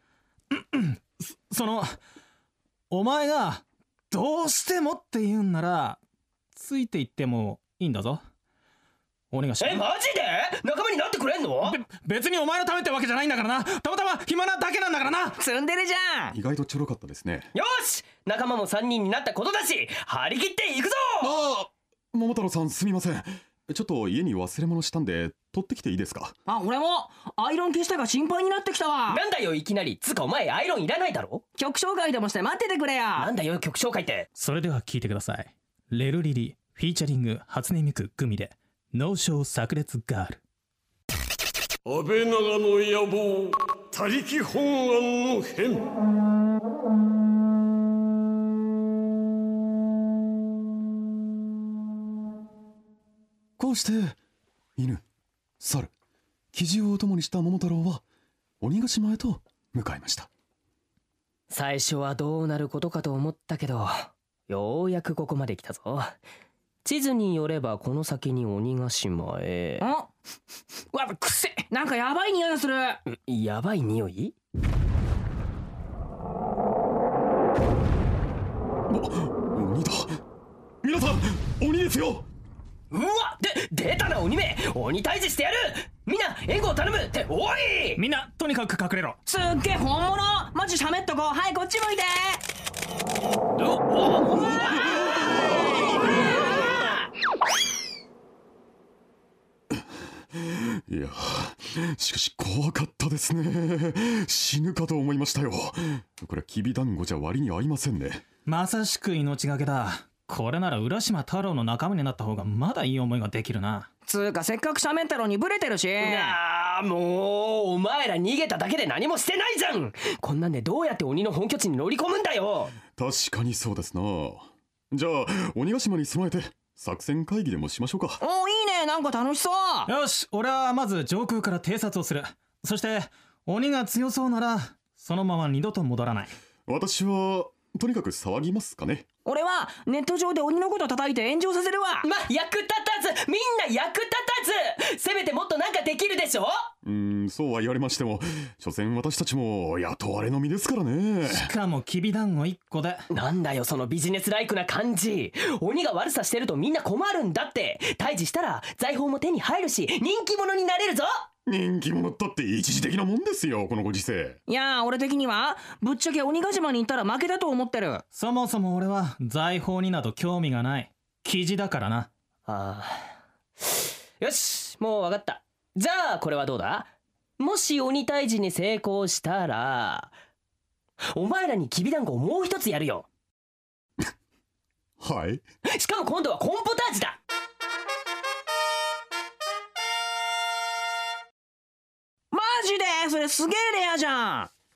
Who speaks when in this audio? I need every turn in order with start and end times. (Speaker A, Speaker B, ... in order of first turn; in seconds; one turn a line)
Speaker A: 0.5-1.9
Speaker A: 2.9-6.0
Speaker A: 6.5-8.2
Speaker A: 9.3-9.9
Speaker B: 9.6-11.8
Speaker A: 11.6-15.4
Speaker C: 15.4-16.4
Speaker D: 16.3-17.5
Speaker B: 17.5-21.3
Speaker D: 21.2-26.3
Speaker C: 26.5-29.2
Speaker B: 29.1-31.4
Speaker C: 31.6-33.3
Speaker B: 33.1-34.3
Speaker A: 34.4-40.4
Speaker E: 41.9-45.8
Speaker D: 53.6-54.2
Speaker D: 54.8-55.0
Speaker D: 55.6-55.9
Speaker D: 56.5-58.0
Speaker D: 58.6-60.3
Speaker B: 61.5-66.2
Speaker B: 66.8-69.9
Speaker C: 69.8-70.1
Speaker C: 70.9-73.0
Speaker B: 73.1-74.3
Speaker D: 78.9-80.2
Speaker D: 80.8-82.3
Speaker B: 82.9-88.0
Speaker A: 88.0-89.2
Speaker C: 89.2-92.4
Speaker B: 93.6-95.3
Speaker D: 99.7-108.2
Speaker A: 108.5-113.9
Speaker C: 114.0-116.4
Speaker B: 116.0-122.7
Speaker D: 123.0-128.2
Speaker C: 128.2-129.9
Speaker A: 129.9-136.3
Speaker D: 136.7-139.1
Speaker C: 139.2-142.1
Speaker B: 142.0-146.7
Speaker D: 146.8-151.5
Speaker A: 151.3-153.0
Speaker B: 153.1-161.3
Speaker D: 161.4-164.4
Speaker C: 164.5-168.0
Speaker A: 168.1-172.1
Speaker B: 172.5-180.1
Speaker B: 181.1-183.1
Speaker D: 185.0-185.4
Speaker B: 185.7-187.2
Speaker C: 192.3-194.5